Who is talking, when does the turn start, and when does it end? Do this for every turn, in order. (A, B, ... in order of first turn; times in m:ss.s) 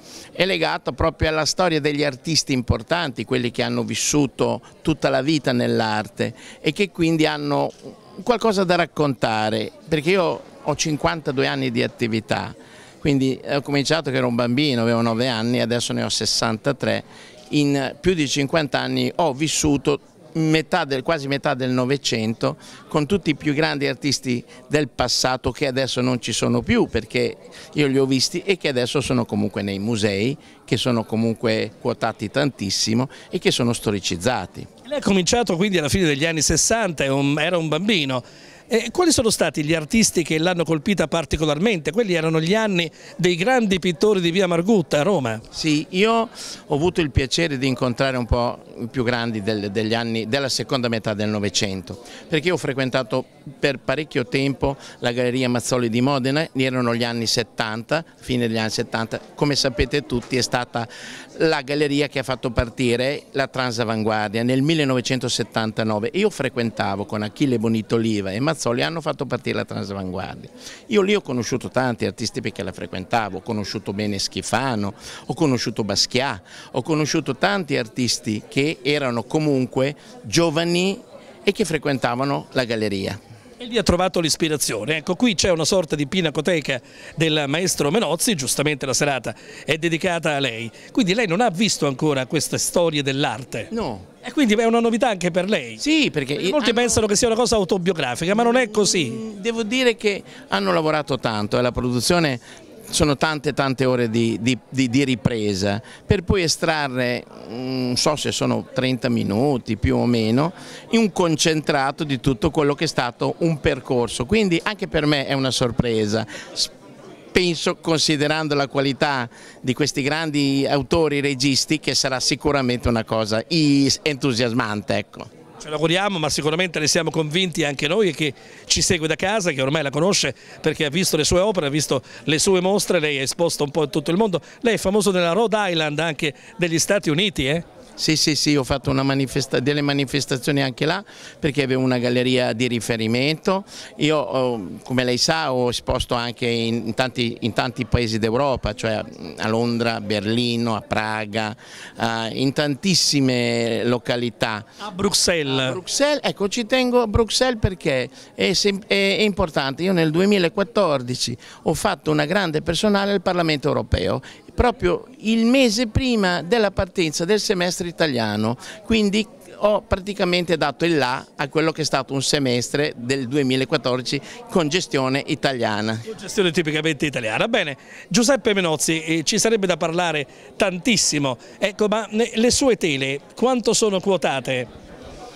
0:00.4-0:34.7 A
0:34.9-0:45.4 B
0:45.5-1:23.2 A
1:23.6-1:33.7 B
1:33.7-1:34.1 A
1:34.2-1:35.8 B
1:35.8-1:37.0 A
1:36.4-1:39.2 B
1:38.4-1:56.7 A
1:57.3-2:05.3 A
2:05.6-2:17.6 B
2:18.0-2:34.8 A
2:34.8-2:35.8 B
2:35.5-2:56.1 A
2:56.1-3:04.7 B